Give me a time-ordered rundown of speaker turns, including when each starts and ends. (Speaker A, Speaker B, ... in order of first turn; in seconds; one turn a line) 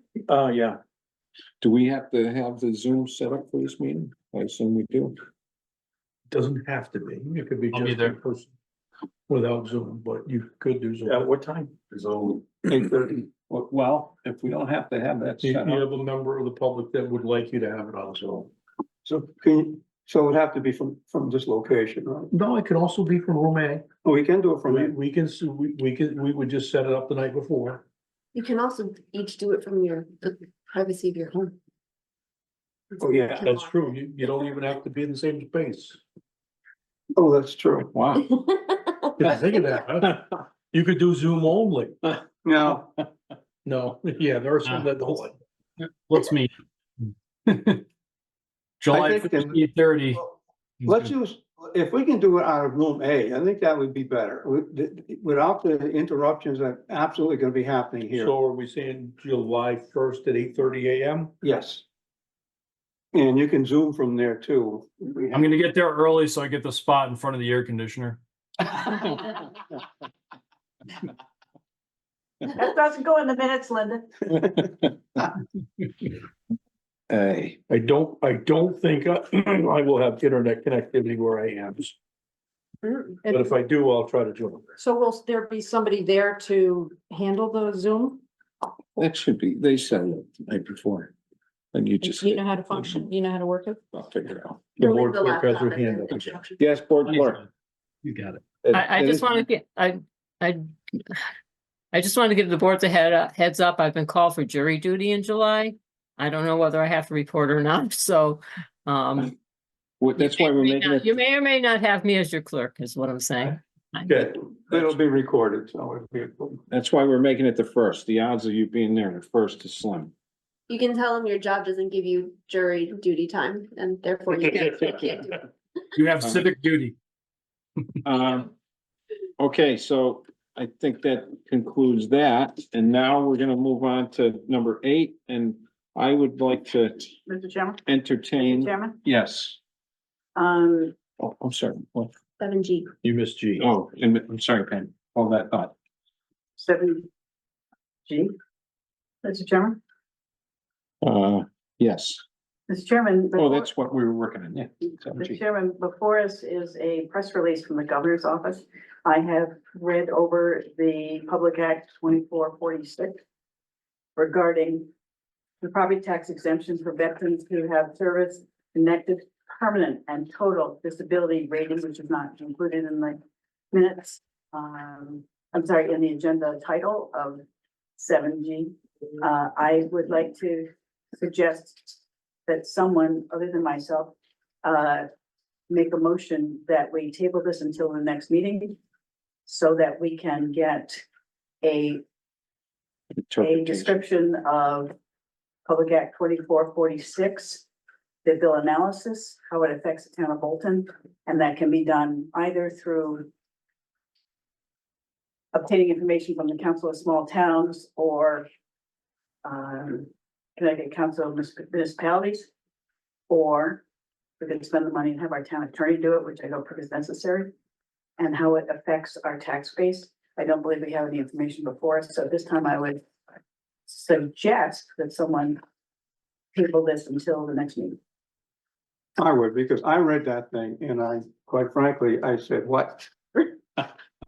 Speaker A: 1.6-5.2
Speaker B: 6.3-8.5
Speaker C: 7.7-8.2
Speaker B: 9.3-11.3
Speaker D: 12.7-13.1
Speaker A: 13.4-15.8
Speaker B: 15.4-18.5
Speaker D: 19.1-22.3
Speaker B: 22.3-23.8
Speaker D: 24.0-24.9
Speaker B: 24.7-27.8
Speaker E: 28.3-31.6
Speaker E: 33.0-34.0
Speaker B: 33.1-36.0
Speaker D: 37.2-37.9
Speaker A: 37.9-38.3
Speaker E: 38.4-39.6
Speaker B: 39.2-42.2
Speaker D: 42.5-42.9
Speaker B: 43.6-45.4
Speaker C: 45.8-47.8
Speaker C: 48.8-50.2
Speaker D: 48.9-49.6
Speaker C: 50.8-51.1
Speaker D: 50.9-58.3
Speaker B: 58.1-61.3
Speaker D: 61.4-61.8
Speaker D: 63.1-65.5
Speaker C: 65.3-68.7
Speaker F: 72.5-74.1
Speaker A: 77.1-77.6
Speaker B: 77.7-82.0
Speaker E: 82.8-83.2
Speaker G: 83.2-83.5
Speaker B: 83.3-84.7
Speaker G: 84.8-88.2
Speaker A: 89.0-91.1
Speaker A: 91.7-93.0
Speaker G: 92.0-93.8
Speaker A: 93.9-94.6
Speaker B: 94.8-96.4
Speaker E: 94.8-96.7
Speaker A: 96.6-97.4
Speaker C: 97.0-97.5
Speaker C: 98.0-98.4
Speaker A: 98.6-99.4
Speaker H: 98.7-101.3
Speaker H: 101.9-109.3
Speaker A: 110.0-111.2
Speaker H: 110.2-114.2
Speaker D: 114.1-116.6
Speaker A: 116.7-120.1
Speaker E: 120.7-125.5
Speaker C: 126.0-127.0
Speaker A: 128.1-128.5
Speaker A: 129.4-137.1
Speaker F: 137.3-137.8
Speaker A: 137.9-139.6
Speaker F: 138.4-139.0
Speaker F: 140.4-141.0
Speaker A: 141.2-142.1
Speaker E: 142.4-142.9
Speaker B: 143.0-143.7
Speaker A: 143.6-145.7
Speaker F: 146.6-147.1
Speaker F: 148.1-148.3
Speaker F: 149.2-149.8
Speaker A: 151.0-152.2
Speaker F: 152.7-153.7
Speaker A: 153.4-155.4
Speaker F: 155.2-163.2
Speaker F: 164.2-164.9
Speaker F: 165.6-173.2
Speaker F: 173.7-177.4
Speaker F: 178.0-185.1
Speaker F: 185.7-188.8
Speaker F: 189.5-191.0
Speaker F: 191.6-192.0
Speaker A: 193.2-193.9
Speaker F: 193.4-194.9
Speaker F: 195.7-197.7
Speaker F: 198.2-203.3
Speaker F: 205.5-208.5
Speaker F: 209.4-212.5
Speaker F: 213.3-213.8
Speaker F: 214.4-217.5
Speaker F: 218.2-223.1
Speaker F: 223.9-225.6
Speaker F: 226.5-228.0
Speaker D: 229.2-233.8